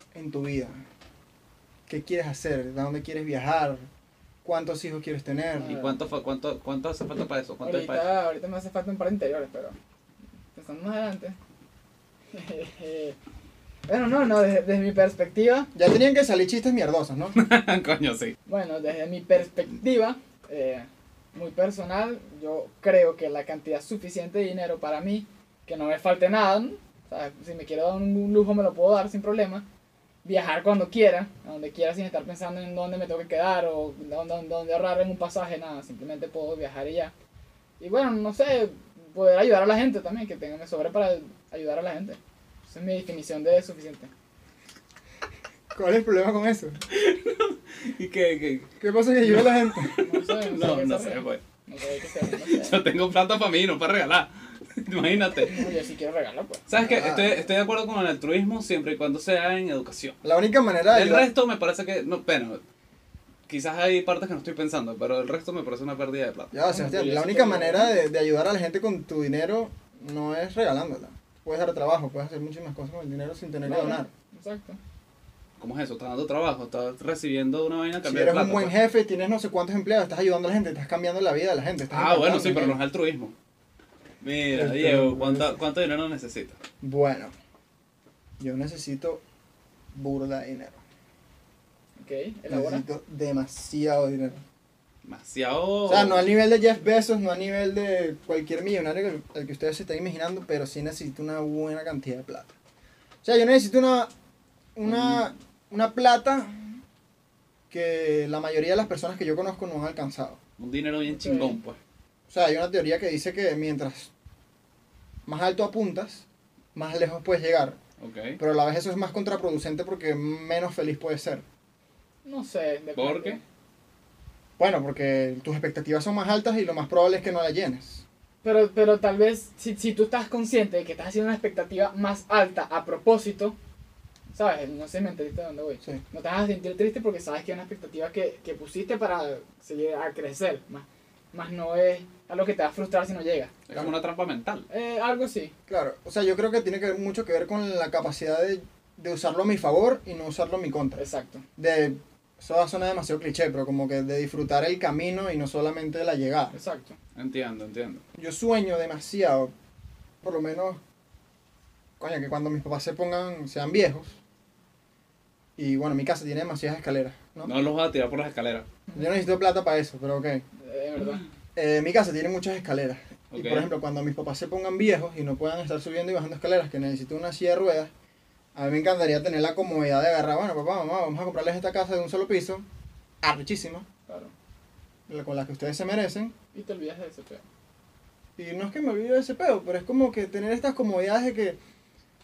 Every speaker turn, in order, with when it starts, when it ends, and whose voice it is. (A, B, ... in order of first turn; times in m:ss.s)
0:00.1-0:00.8 A
0:01.9-0:03.8 A
0:04.4-0:05.8 A
0:05.6-0:06.0 B
0:05.6-0:08.1 C
0:07.6-0:09.8 B
0:10.6-0:11.4 B
0:12.3-0:13.2 B
0:13.9-0:15.7 B
0:15.7-0:17.4 A
0:17.4-0:18.4 C
0:18.5-0:29.6 B
0:30.2-0:37.1 B
0:37.8-0:42.2 B
0:42.7-0:44.1 B
0:45.7-0:46.8 A
0:46.9-0:51.4 C
0:48.8-0:50.0 A
0:50.0-0:52.8 B
0:52.3-0:55.6 C
0:55.5-0:56.6 B
0:56.7-1:00.2 C
0:56.8-0:57.4 A
1:00.2-1:01.3 A
1:00.9-1:02.6 C
1:03.5-1:06.5 C
1:06.5-1:14.1 A
1:06.6-1:08.0 B
1:13.6-1:14.8 B
1:15.6-1:18.8 C
1:18.0-1:22.8 A
1:21.9-1:23.4 C
1:24.2-1:26.6 C
1:24.5-1:25.6 A
1:26.8-1:27.3 A
1:28.4-1:29.2 A
1:29.9-1:30.8 A
1:32.0-1:32.8 B
1:32.5-1:34.4 A
1:35.0-1:36.3 C
1:35.9-1:42.5 A
1:43.2-1:44.1 A
1:44.8-1:46.7 A
1:44.8-1:45.2 C
1:47.7-1:50.4 A
1:50.6-1:51.8 C
1:51.1-1:51.6 B
1:52.3-1:54.1 A
1:55.3-1:57.8 A
1:58.0-1:58.4 C
1:58.4-2:01.4 A
2:02.2-2:03.4 B
2:03.0-2:03.4 C
2:04.6-2:08.0 A
2:08.4-2:13.6 B
2:14.3-2:23.6 B
2:23.7-2:24.7 C
2:24.7-2:25.5 B
2:25.7-2:31.0 A
2:31.0-2:31.4 B
2:31.6-2:36.6 A
2:36.5-2:37.0 B
2:37.2-2:38.0 C
2:38.2-2:39.5 A
2:40.2-2:40.8 A
2:42.0-2:44.2 A
2:45.6-2:47.5 A
2:47.4-2:48.7 C
2:48.9-2:50.4 A
2:50.6-2:51.2 B
2:51.6-2:57.9 A
2:53.3-2:53.7 C
2:58.6-3:02.6 A
3:03.2-3:03.9 A
3:04.1-3:04.3 B
3:05.1-3:06.4 A
3:06.5-3:07.4 B
3:08.4-3:11.6 A